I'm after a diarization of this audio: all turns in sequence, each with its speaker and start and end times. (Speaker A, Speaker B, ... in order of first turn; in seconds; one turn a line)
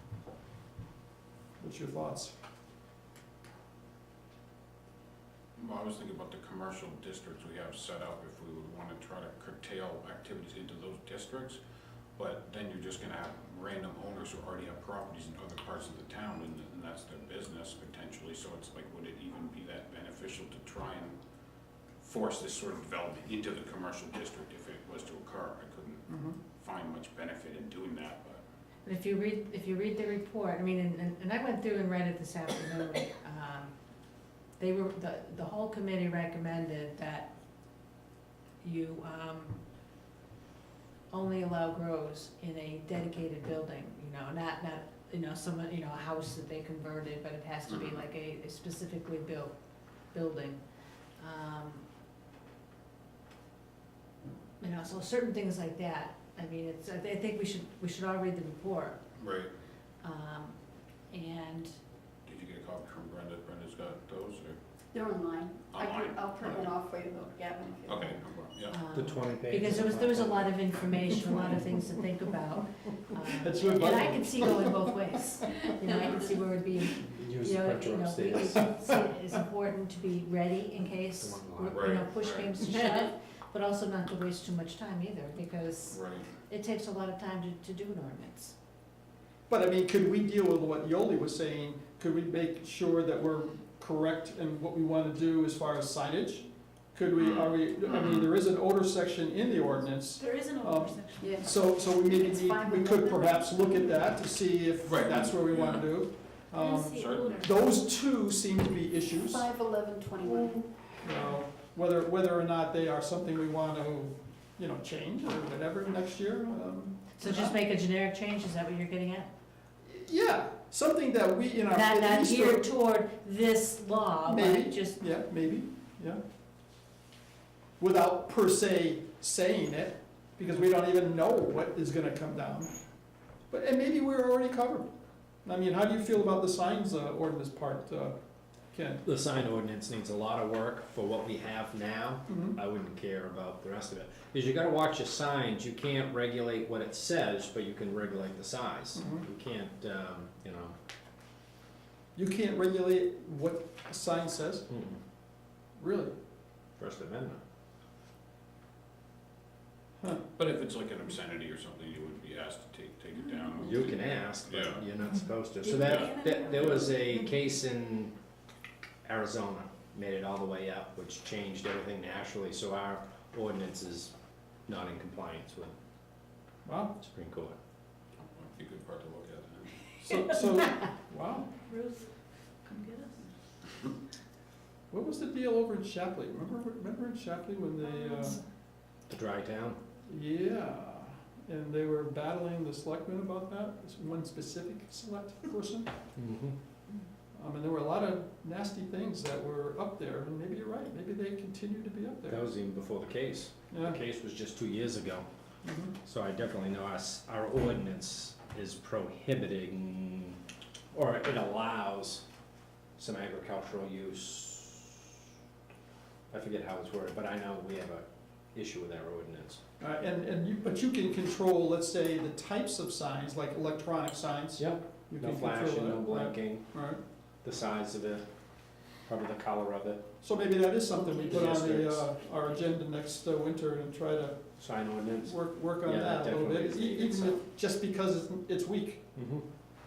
Speaker A: 1.6-2.3
Speaker B: 5.6-11.6
Speaker B: 12.2-21.1
Speaker B: 22.0-28.4
Speaker A: 26.1-26.4
Speaker C: 28.8-33.7
Speaker C: 34.6-37.3
Speaker C: 38.6-39.6
Speaker C: 41.1-49.5
Speaker B: 47.7-48.0
Speaker C: 50.1-50.6
Speaker C: 51.2-51.8
Speaker C: 54.6-59.0
Speaker B: 59.2-59.5
Speaker C: 60.0-60.5
Speaker C: 61.1-61.7
Speaker B: 62.3-64.6
Speaker D: 64.9-68.2
Speaker B: 65.7-66.7
Speaker B: 67.8-68.8
Speaker C: 68.7-88.5
Speaker E: 68.9-70.6
Speaker A: 73.2-74.8
Speaker E: 77.0-78.9
Speaker E: 81.2-81.9
Speaker B: 81.7-82.7
Speaker B: 85.9-86.3
Speaker A: 89.5-109.5
Speaker B: 97.1-98.3
Speaker F: 100.2-101.3
Speaker D: 101.2-103.7
Speaker B: 104.8-106.0
Speaker F: 106.5-107.9
Speaker B: 106.9-107.5
Speaker D: 109.2-110.9
Speaker A: 111.0-117.6
Speaker C: 117.2-119.3
Speaker A: 119.8-122.7
Speaker C: 121.7-125.0
Speaker A: 124.2-126.2
Speaker A: 127.8-132.7
Speaker A: 133.5-134.9
Speaker A: 135.4-138.2
Speaker A: 138.7-139.0
Speaker E: 139.0-150.8
Speaker A: 142.3-142.6
Speaker A: 148.9-149.2
Speaker A: 152.1-154.7
Speaker E: 154.7-155.0
Speaker A: 155.8-156.1
Speaker E: 156.8-157.4
Speaker B: 160.4-164.8
Speaker E: 163.6-168.1
Speaker B: 165.7-166.9
Speaker D: 166.2-166.8
Speaker E: 169.1-174.1
Speaker E: 174.7-175.7
Speaker A: 176.6-176.9
Speaker E: 177.0-177.6
Speaker B: 178.2-179.8
Speaker A: 180.0-181.5
Speaker F: 181.7-182.1
Speaker F: 182.6-183.3
Speaker A: 184.9-188.4
Speaker E: 189.1-189.8
Speaker A: 190.1-195.9
Speaker E: 196.2-196.6
Speaker A: 197.3-202.5
Speaker E: 202.3-205.3
Speaker A: 203.7-204.0
Speaker A: 205.6-205.9
Speaker E: 206.0-210.4
Speaker E: 210.9-212.2
Speaker E: 213.0-215.1
Speaker E: 216.3-219.6
Speaker A: 219.8-227.0
Speaker E: 224.6-226.7
Speaker E: 227.4-228.2
Speaker E: 229.1-230.0
Speaker A: 230.2-234.4
Speaker E: 231.2-232.0
Speaker E: 234.6-237.4
Speaker A: 235.2-239.0
Speaker E: 239.1-239.4